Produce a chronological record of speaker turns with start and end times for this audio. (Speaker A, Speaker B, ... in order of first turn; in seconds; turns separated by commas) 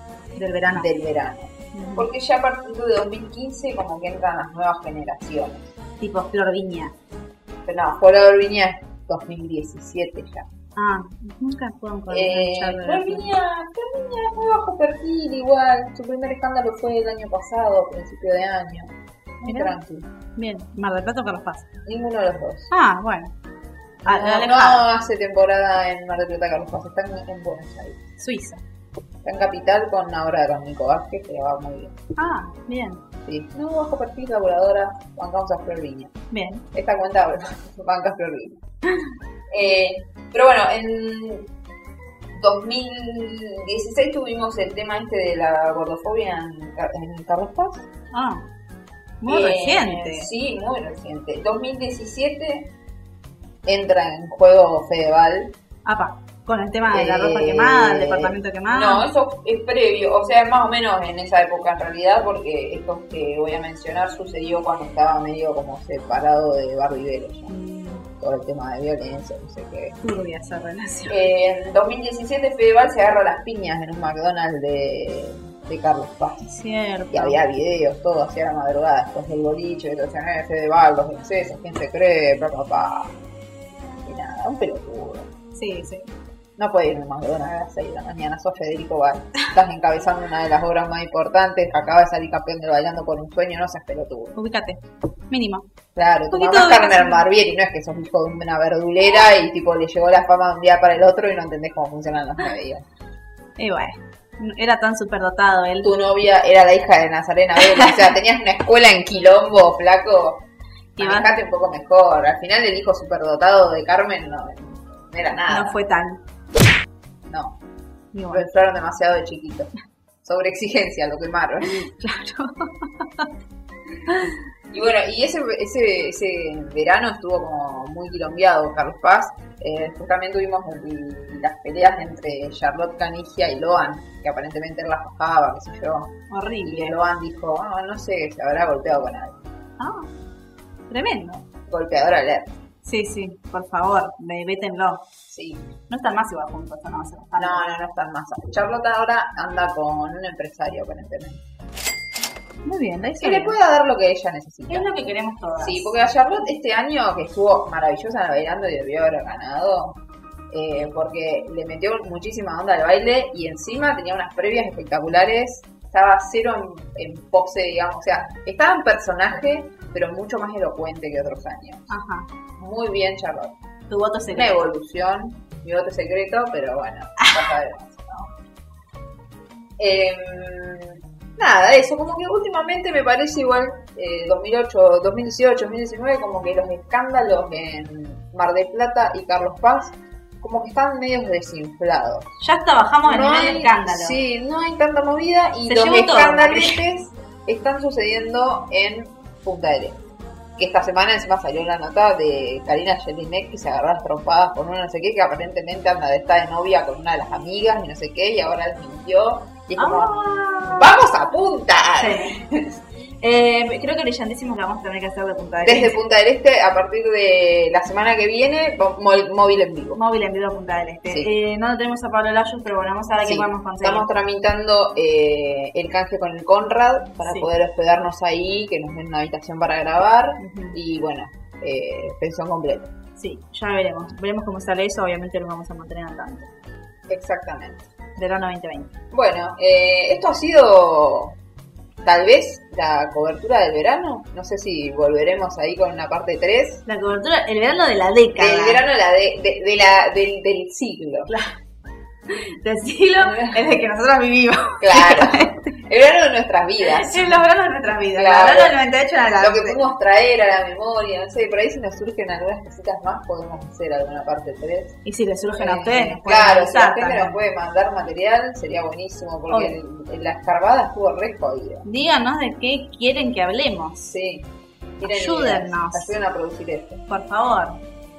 Speaker A: 0.4-0.9, Speaker B: 0.7-5.7, Speaker A: 1.7-2.1, Speaker A: 6.0-6.9, Speaker B: 7.7-10.5, Speaker A: 10.8-13.3, Speaker B: 12.1-20.1, Speaker A: 19.5-19.7, Speaker A: 20.4-21.7, Speaker B: 21.9-22.7, Speaker A: 22.7-23.3, Speaker B: 24.0-28.0, Speaker A: 24.1-24.9, Speaker A: 28.2-28.6, Speaker B: 29.2-32.0, Speaker A: 32.2-33.0, Speaker B: 33.3-36.1, Speaker A: 36.3-36.6, Speaker B: 36.7-38.6, Speaker B: 39.5-41.5, Speaker B: 42.4-47.9, Speaker A: 48.1-48.4, Speaker A: 49.2-50.3, Speaker B: 49.3-52.7, Speaker B: 53.6-55.5, Speaker A: 55.9-59.1, Speaker B: 56.9-67.5, Speaker A: 67.5-68.0, Speaker B: 68.2-70.0, Speaker A: 70.0-71.2, Speaker B: 71.1-76.5, Speaker A: 76.4-77.4, Speaker B: 77.1-83.1, Speaker B: 84.0-85.3, Speaker A: 85.6-86.1, Speaker B: 86.6-94.3, Speaker A: 94.3-95.7, Speaker B: 96.0-102.8, Speaker A: 96.3-97.2, Speaker A: 103.6-105.9, Speaker B: 105.8-110.5, Speaker B: 111.0-115.8, Speaker A: 111.0-111.3, Speaker A: 115.5-116.2, Speaker B: 117.3-117.6, Speaker A: 118.1-118.5, Speaker B: 118.3-119.7, Speaker B: 120.2-121.9, Speaker A: 121.8-123.3, Speaker A: 124.1-124.3, Speaker B: 124.7-139.4, Speaker A: 136.3-137.0, Speaker A: 139.8-140.1, Speaker A: 140.9-141.4, Speaker B: 141.7-142.6, Speaker A: 142.8-145.1, Speaker B: 145.3-145.7, Speaker A: 145.9-147.6, Speaker B: 147.4-151.5, Speaker A: 152.7-153.6, Speaker B: 153.2-155.0, Speaker A: 154.7-155.9, Speaker B: 155.6-160.0, Speaker B: 160.5-171.9, Speaker A: 171.9-172.3, Speaker B: 172.6-173.6, Speaker A: 173.9-174.6, Speaker B: 174.3-178.3, Speaker A: 177.2-177.4, Speaker B: 179.8-192.3, Speaker A: 192.4-194.2, Speaker B: 193.1-200.0, Speaker A: 195.7-196.8, Speaker B: 200.6-212.7, Speaker A: 209.8-210.9, Speaker A: 212.0-212.4, Speaker A: 213.2-215.9, Speaker B: 215.7-220.0, Speaker A: 219.9-224.1, Speaker B: 223.2-232.9, Speaker A: 227.2-227.5, Speaker A: 230.4-230.8, Speaker A: 233.2-236.5, Speaker B: 237.1-237.9, Speaker A: 238.2-238.9, Speaker B: 239.1-241.4, Speaker B: 242.0-246.8, Speaker A: 246.9-248.8, Speaker B: 248.4-251.3, Speaker A: 251.3-251.5, Speaker A: 252.3-255.7, Speaker B: 253.2-253.8, Speaker B: 254.8-257.4, Speaker A: 256.9-259.8, Speaker B: 258.1-258.8, Speaker B: 259.4-265.0, Speaker A: 265.1-267.4, Speaker B: 265.6-271.9, Speaker A: 269.5-269.8, Speaker A: 271.9-274.1, Speaker B: 274.1-274.5, Speaker B: 275.0-277.0, Speaker A: 275.0-276.1, Speaker A: 277.1-277.8